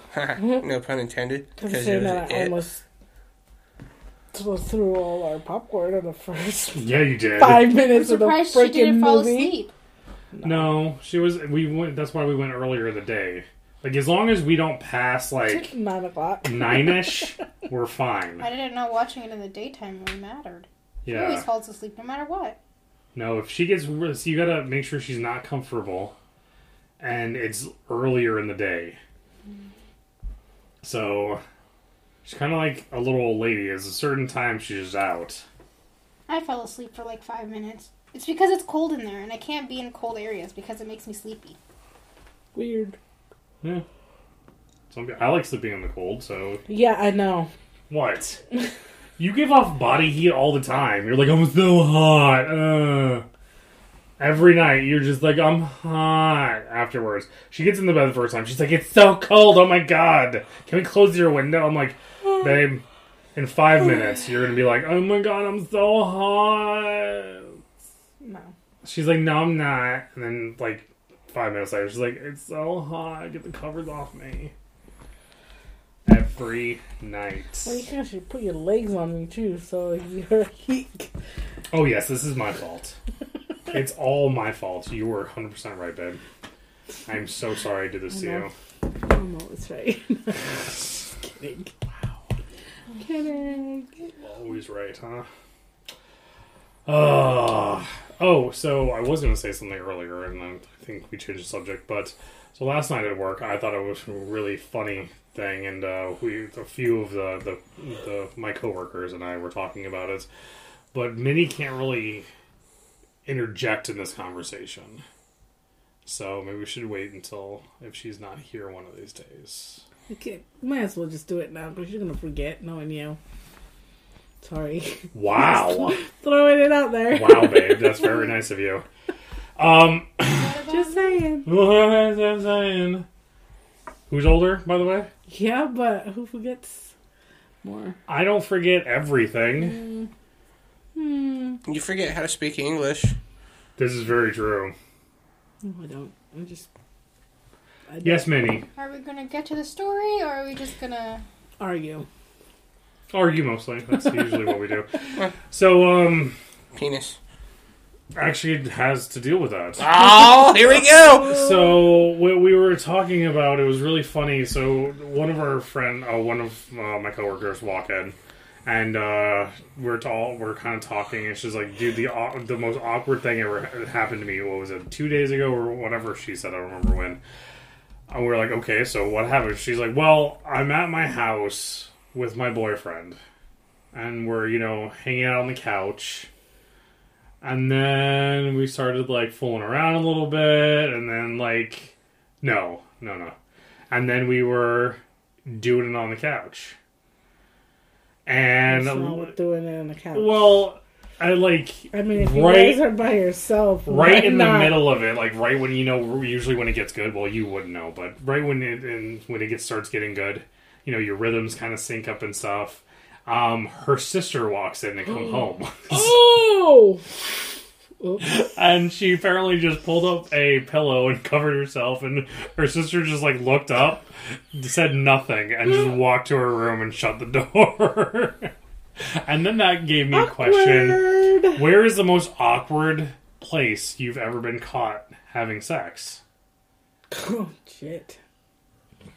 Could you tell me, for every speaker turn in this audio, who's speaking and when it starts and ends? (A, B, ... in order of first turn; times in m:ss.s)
0:00.1-0:02.6 A
0:00.4-0:00.6 B
0:01.6-0:02.8 B
0:04.3-0:09.6 B
0:06.8-0:07.8 C
0:07.9-0:09.7 D
0:10.3-0:10.8 B
0:10.4-0:15.7 C
0:15.4-0:17.3 B
0:16.4-0:18.5 C
0:18.4-0:22.6 D
0:21.0-0:21.4 C
0:23.1-0:26.1 C
0:27.0-0:29.0 C
0:30.8-0:31.4 C
0:32.2-0:35.4 C
0:36.3-0:41.6 D
0:42.5-0:43.0 B
0:44.9-0:46.6 C
0:46.7-0:47.5 B
0:47.9-0:48.4 C
0:49.2-0:53.2 C
0:54.2-1:02.8 C
1:03.3-1:07.6 C
1:08.2-1:08.5 B
1:08.8-1:14.5 C
1:16.0-1:17.8 C
1:17.6-1:21.1 B
1:21.7-1:23.0 C
1:23.7-1:26.2 C
1:27.1-1:28.5 C
1:28.1-1:31.7 B
1:33.0-1:34.0 B
1:34.2-1:35.3 C
1:36.8-1:50.3 C
1:50.9-1:52.2 C
1:53.2-1:55.0 C
1:56.0-1:59.8 C
2:00.1-2:03.2 B
2:04.4-2:08.1 B
2:05.1-2:06.0 C
2:07.1-2:08.8 C
2:09.6-2:10.5 C
2:10.3-2:11.2 D
2:10.7-2:11.5 B
2:11.4-2:13.1 C
2:14.1-2:15.1 C
2:15.3-2:16.9 B
2:17.6-2:18.0 B
2:18.1-2:19.8 C
2:19.6-2:20.1 B
2:20.9-2:21.6 B
2:21.6-2:23.1 A
2:23.8-2:24.7 C
2:25.6-2:26.7 B
2:27.9-2:28.3 B
2:28.0-2:28.6 C
2:28.8-2:31.2 D
2:31.6-2:32.0 B
2:33.1-2:34.9 C
2:35.5-2:36.4 C
2:36.7-2:37.2 A
2:38.1-2:39.9 C
2:39.8-2:41.3 A
2:40.9-2:41.9 B
2:41.2-2:57.2 C
2:58.1-3:03.2 C
3:03.9-3:06.3 C
3:07.4-3:13.3 C
3:13.9-3:16.8 C
3:18.2-3:19.3 C
3:18.7-3:20.6 B
3:20.1-3:22.9 C
3:21.9-3:24.9 B
3:23.9-3:36.1 C
3:35.9-3:37.0 B
3:38.0-3:38.2 B
3:38.2-3:56.2 C
3:50.1-3:51.7 B
3:57.1-3:58.2 B